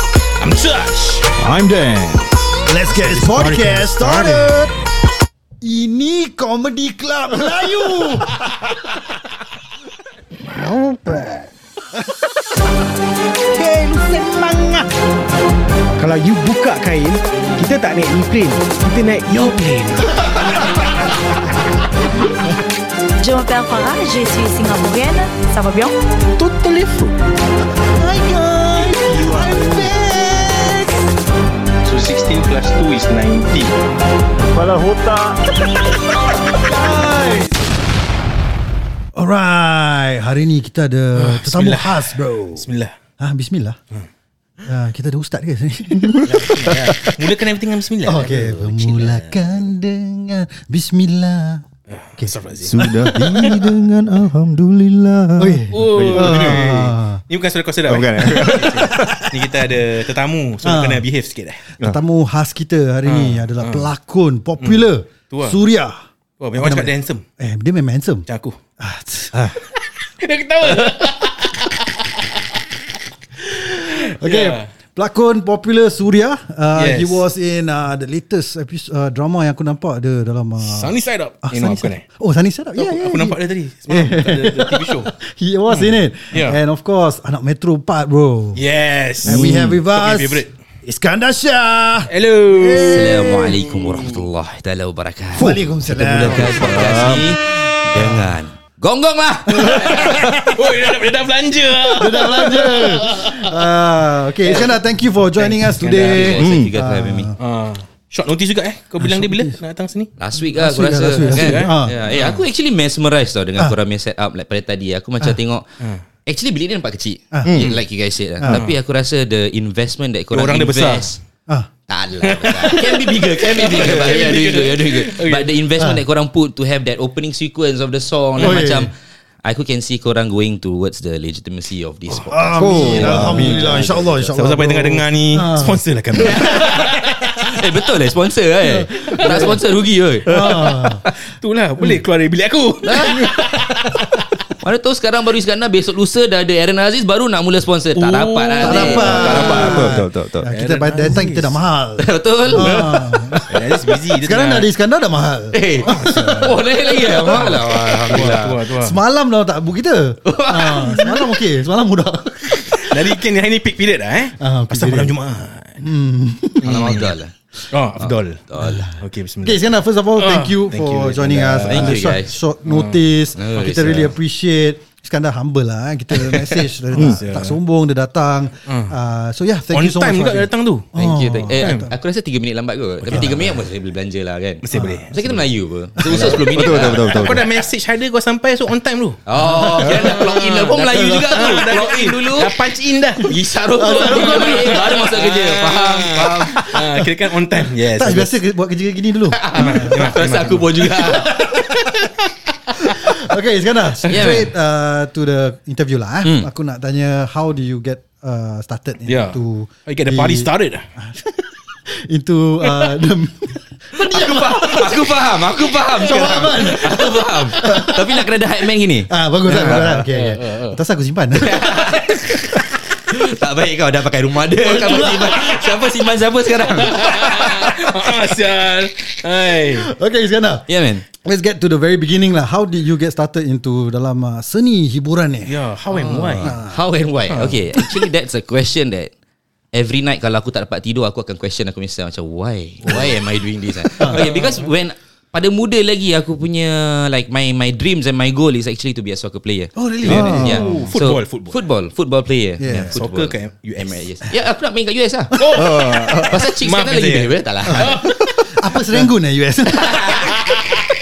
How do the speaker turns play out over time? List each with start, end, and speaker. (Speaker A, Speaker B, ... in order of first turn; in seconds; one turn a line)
Speaker A: 0.4-1.3
Speaker B: 1.4-2.3
Speaker C: 2.6-4.8
Speaker A: 2.9-4.5
Speaker C: 5.6-8.3
Speaker D: 10.6-11.2
Speaker C: 13.5-14.8
Speaker D: 16.0-20.2
Speaker E: 23.2-25.9
Speaker D: 26.4-27.2
Speaker C: 27.9-30.9
Speaker D: 29.0-29.9
Speaker A: 31.8-33.7
Speaker D: 34.5-35.5
Speaker C: 36.6-37.5
Speaker C: 39.1-42.7
Speaker A: 41.2-42.9
Speaker C: 43.2-43.8
Speaker C: 44.6-47.4
Speaker A: 46.2-49.4
Speaker C: 48.0-51.6
Speaker A: 51.9-53.7
Speaker C: 52.2-53.5
Speaker B: 52.6-56.9
Speaker C: 55.4-57.2
Speaker A: 55.7-61.6
Speaker B: 57.9-59.3
Speaker C: 58.4-59.7
Speaker C: 60.6-61.0
Speaker C: 61.8-66.0
Speaker A: 63.0-63.9
Speaker A: 64.6-65.6
Speaker A: 66.4-67.2
Speaker C: 66.6-68.3
Speaker A: 68.3-68.6
Speaker C: 68.8-69.7
Speaker A: 70.2-72.1
Speaker C: 73.4-88.6
Speaker A: 74.1-74.7
Speaker A: 76.8-77.2
Speaker A: 80.6-82.0
Speaker A: 82.8-85.1
Speaker A: 85.7-86.6
Speaker A: 88.6-90.5
Speaker C: 89.2-93.6
Speaker B: 89.2-89.8
Speaker A: 92.1-94.2
Speaker F: 92.8-100.3
Speaker C: 95.3-97.3
Speaker B: 96.2-97.3
Speaker C: 97.9-98.3
Speaker C: 99.5-100.6
Speaker A: 99.8-103.5
Speaker C: 101.8-107.4
Speaker A: 105.4-106.3
Speaker F: 105.8-107.3
Speaker B: 106.4-106.7
Speaker A: 107.4-110.1
Speaker C: 109.0-109.5
Speaker F: 110.2-115.7
Speaker C: 110.5-112.0
Speaker A: 111.2-112.4
Speaker F: 116.2-121.2
Speaker C: 117.3-117.7
Speaker B: 117.4-117.7
Speaker A: 118.5-118.8
Speaker A: 120.3-121.2
Speaker F: 121.9-128.9
Speaker A: 122.2-125.5
Speaker C: 128.4-128.9
Speaker F: 129.4-134.3
Speaker C: 132.1-136.8
Speaker B: 132.6-134.0
Speaker A: 134.3-136.9
Speaker F: 136.2-141.1
Speaker C: 138.6-139.6
Speaker A: 139.2-139.5
Speaker C: 140.3-141.0
Speaker B: 140.3-140.6
Speaker A: 141.2-143.9
Speaker F: 142.8-143.3
Speaker F: 144.6-150.0
Speaker A: 148.0-149.9
Speaker C: 148.6-153.6
Speaker B: 149.0-150.5
Speaker A: 150.5-151.6
Speaker F: 152.0-152.9
Speaker B: 152.6-153.4
Speaker A: 153.5-154.7
Speaker C: 154.2-156.6
Speaker F: 155.5-158.6
Speaker A: 155.8-159.0
Speaker C: 157.3-157.6
Speaker C: 158.1-163.1
Speaker F: 160.2-161.3
Speaker A: 162.9-165.8
Speaker C: 164.4-165.1
Speaker C: 165.8-167.1
Speaker A: 166.6-167.1
Speaker F: 166.6-167.3
Speaker A: 167.7-172.0
Speaker F: 168.0-168.8
Speaker C: 168.6-181.9
Speaker F: 171.7-172.4
Speaker A: 172.6-173.0
Speaker F: 173.4-174.1
Speaker A: 176.1-177.6
Speaker A: 178.7-179.0
Speaker A: 179.7-180.9
Speaker F: 180.9-187.3
Speaker A: 181.6-181.9
Speaker A: 183.1-183.4
Speaker C: 183.1-183.5
Speaker A: 184.6-185.4
Speaker C: 184.7-185.1
Speaker C: 186.0-186.5
Speaker B: 186.1-187.5
Speaker A: 186.6-193.3
Speaker F: 189.2-192.6
Speaker C: 189.3-190.1
Speaker C: 191.0-191.4
Speaker F: 193.2-196.8
Speaker C: 193.7-194.9
Speaker A: 193.9-198.3
Speaker C: 196.6-197.1
Speaker C: 197.9-200.1
Speaker F: 199.3-201.6
Speaker A: 199.6-201.2
Speaker C: 201.0-201.9
Speaker C: 202.8-215.1
Speaker A: 204.1-204.5
Speaker F: 204.1-204.5
Speaker A: 209.1-210.9
Speaker A: 212.6-212.9
Speaker F: 213.9-220.1
Speaker C: 215.9-218.2
Speaker C: 219.1-222.6
Speaker A: 219.7-220.8
Speaker F: 221.4-227.6
Speaker C: 224.6-225.8
Speaker A: 226.9-229.9
Speaker C: 227.0-227.8
Speaker C: 229.7-230.7
Speaker F: 230.7-231.1
Speaker C: 231.2-235.6
Speaker A: 235.5-236.6
Speaker F: 235.9-239.1
Speaker C: 236.4-236.8
Speaker A: 237.3-238.0
Speaker F: 239.7-255.3
Speaker A: 244.0-244.7
Speaker C: 249.8-250.9
Speaker A: 250.0-251.6
Speaker B: 250.1-250.8
Speaker C: 252.6-252.9
Speaker A: 252.9-254.0
Speaker A: 255.4-258.4
Speaker B: 255.5-256.4
Speaker F: 256.3-258.0
Speaker C: 257.7-260.3
Speaker F: 259.9-260.5